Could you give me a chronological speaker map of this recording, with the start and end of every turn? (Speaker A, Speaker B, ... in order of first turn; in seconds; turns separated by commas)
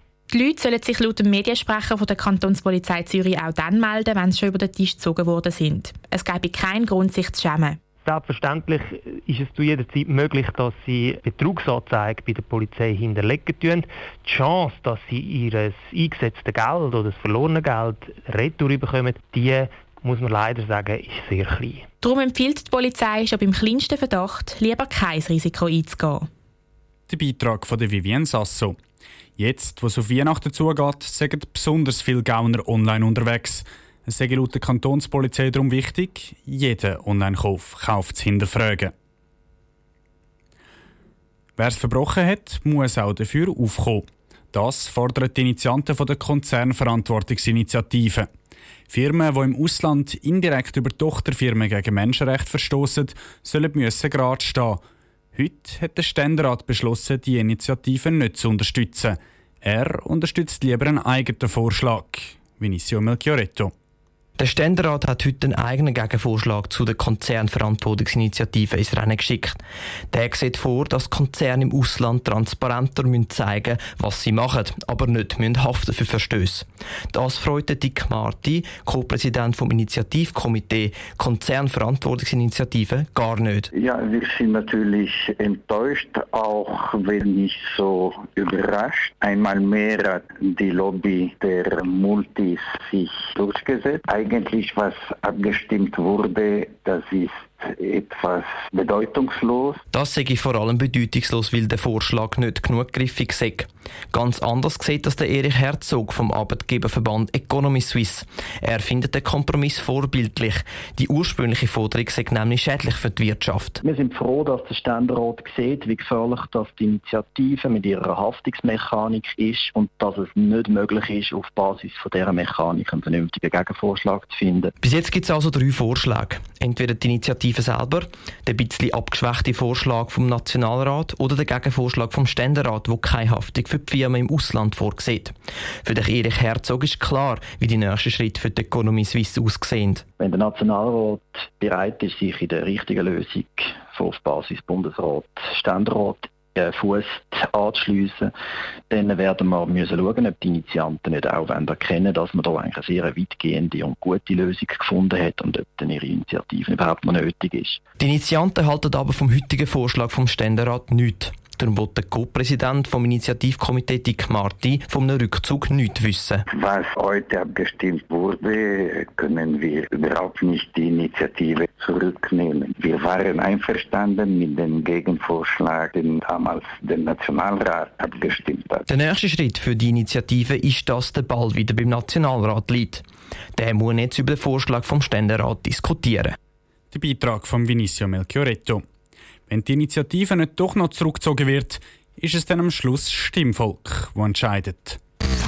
Speaker A: 0.3-7.8, Speaker B: 8.0-21.8, Speaker A: 22.0-26.3, Speaker C: 27.1-28.8, Speaker C: 29.4-38.9, Speaker C: 41.6-48.3, Speaker C: 48.9-54.8, Speaker C: 55.3-63.7, Speaker D: 64.4-69.6, Speaker D: 70.1-83.7, Speaker E: 83.9-90.0, Speaker E: 90.5-92.5, Speaker E: 93.4-94.9, Speaker E: 95.5-97.2, Speaker D: 99.9-113.8, Speaker F: 113.8-124.7, Speaker D: 124.8-140.0, Speaker F: 140.2-148.3, Speaker F: 148.9-157.8, Speaker D: 158.0-166.4, Speaker E: 166.7-167.8, Speaker E: 170.2-171.2, Speaker E: 173.1-174.1, Speaker E: 176.3-177.6, Speaker D: 178.9-183.0, Speaker D: 183.6-186.3, Speaker C: 186.9-188.8, Speaker C: 189.5-195.0